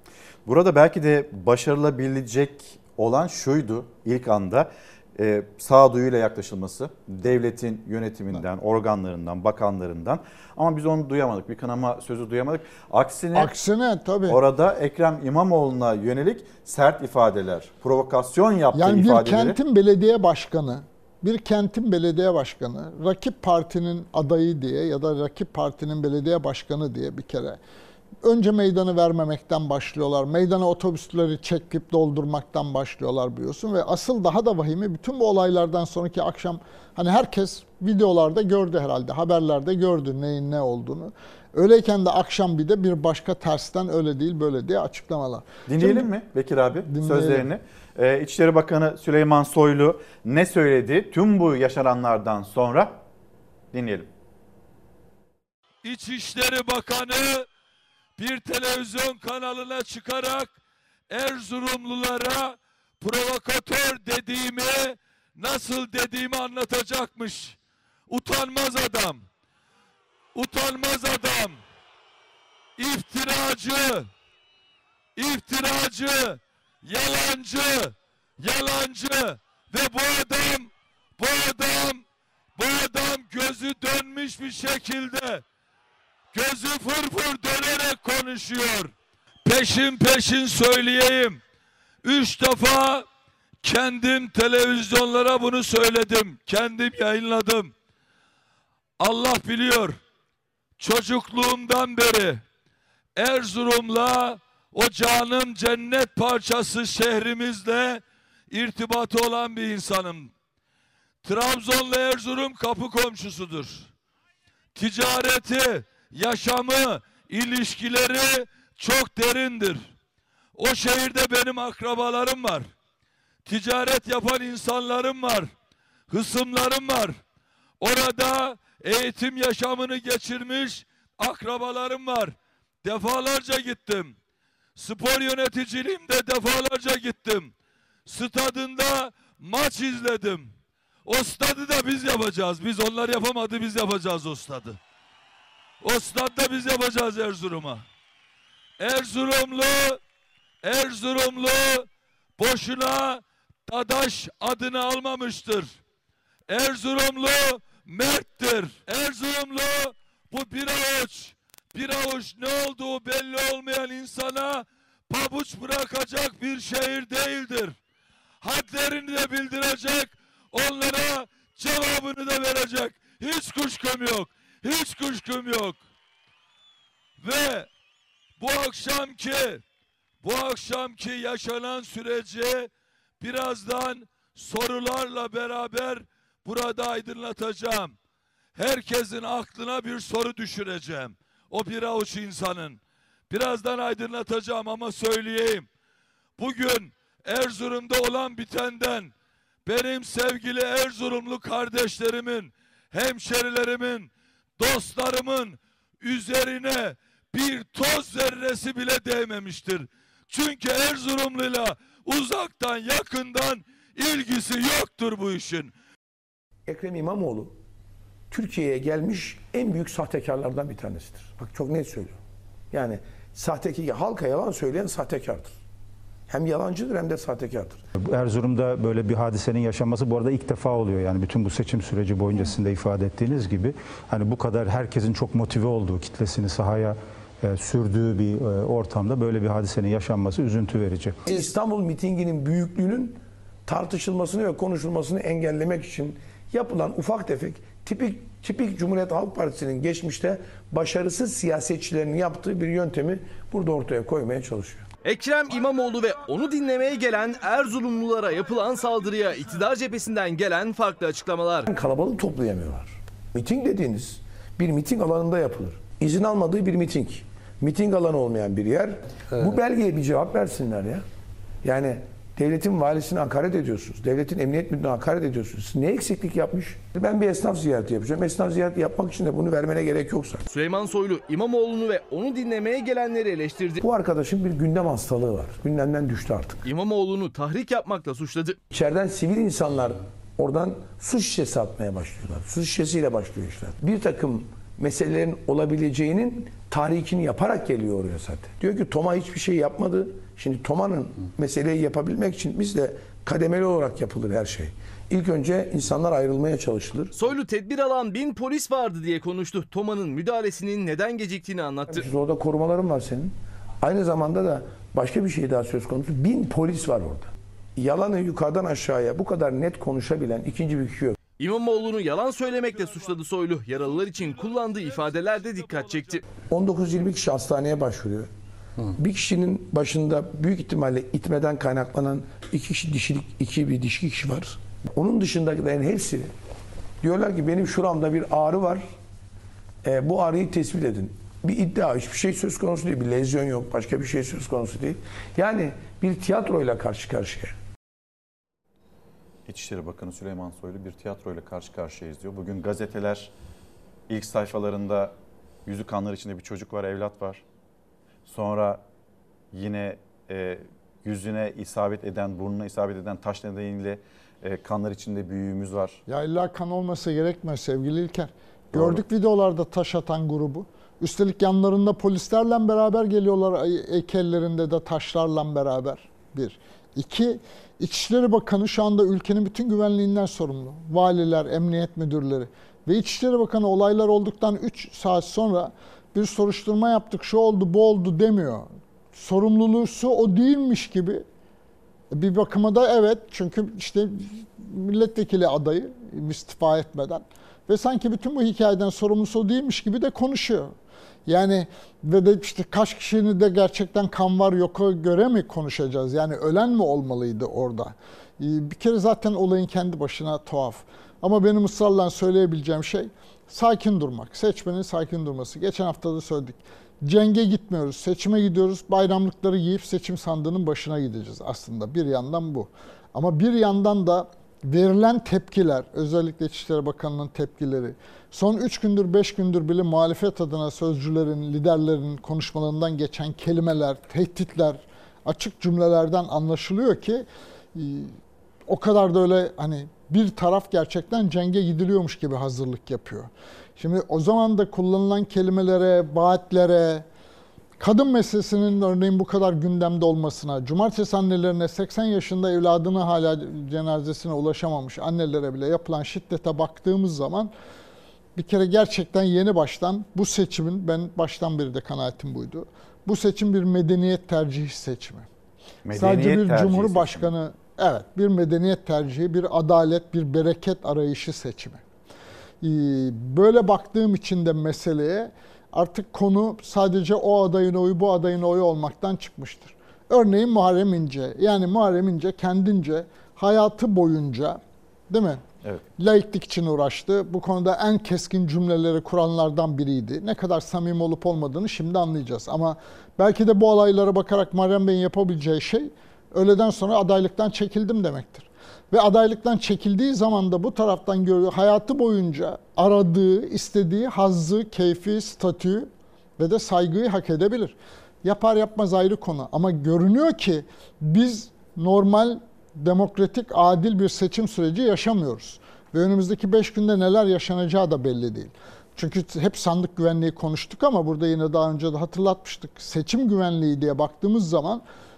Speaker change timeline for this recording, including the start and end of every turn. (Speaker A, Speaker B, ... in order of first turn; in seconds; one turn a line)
Speaker A: 0.5-13.5
Speaker B: 13.3-14.4
Speaker A: 14.3-19.6
Speaker B: 18.7-27.6
Speaker B: 28.2-46.1
Speaker A: 45.7-53.0
Speaker B: 46.9-47.5
Speaker A: 53.7-54.1
Speaker C: 55.8-57.5
Speaker C: 58.2-60.5
Speaker C: 61.1-67.6
Speaker C: 68.1-69.2
Speaker C: 70.3-71.6
Speaker C: 72.8-74.1
Speaker C: 75.2-82.0
Speaker C: 82.5-85.4
Speaker C: 86.3-88.9
Speaker C: 89.4-91.4
Speaker C: 92.0-93.0
Speaker C: 93.6-97.7
Speaker C: 99.0-100.0
Speaker C: 100.8-102.4
Speaker C: 103.2-110.3
Speaker C: 111.2-113.9
Speaker C: 114.8-119.9
Speaker C: 120.5-122.7
Speaker C: 123.5-125.5
Speaker C: 126.1-127.2
Speaker C: 127.8-134.1
Speaker C: 134.8-137.5
Speaker C: 138.1-140.5
Speaker C: 141.1-144.8
Speaker C: 145.8-147.8
Speaker C: 148.8-150.0
Speaker C: 150.6-151.9
Speaker C: 152.4-155.8
Speaker C: 156.5-167.8
Speaker C: 168.4-175.8
Speaker C: 177.2-177.7
Speaker C: 178.4-179.6
Speaker C: 180.2-187.9
Speaker C: 188.6-192.8
Speaker C: 193.3-195.7
Speaker C: 196.4-199.1
Speaker C: 199.7-215.7
Speaker D: 216.7-217.5
Speaker D: 218.3-222.2
Speaker D: 222.7-225.6
Speaker D: 226.3-227.8
Speaker E: 227.9-241.2
Speaker D: 241.2-254.9
Speaker F: 255.0-261.7
Speaker D: 261.7-271.0
Speaker D: 271.6-280.4
Speaker F: 280.5-283.8
Speaker D: 283.8-286.6
Speaker F: 286.6-288.6
Speaker D: 288.7-307.1
Speaker F: 307.1-312.0
Speaker D: 311.9-321.1
Speaker F: 321.4-326.2
Speaker C: 323.9-326.2
Speaker D: 326.5-328.3
Speaker D: 328.9-336.3
Speaker D: 337.0-338.9
Speaker D: 339.8-347.6
Speaker A: 349.5-353.3
Speaker A: 354.1-355.1
Speaker A: 355.6-357.4
Speaker A: 358.2-358.8
Speaker A: 359.5-366.0
Speaker B: 366.1-391.2
Speaker A: 368.7-369.0
Speaker B: 392.1-400.7
Speaker B: 401.2-438.1
Speaker B: 438.7-447.1
Speaker B: 447.8-457.5
Speaker B: 458.4-465.3
Speaker A: 465.8-467.3
Speaker B: 465.9-471.8
Speaker B: 472.6-485.4
Speaker B: 486.0-524.8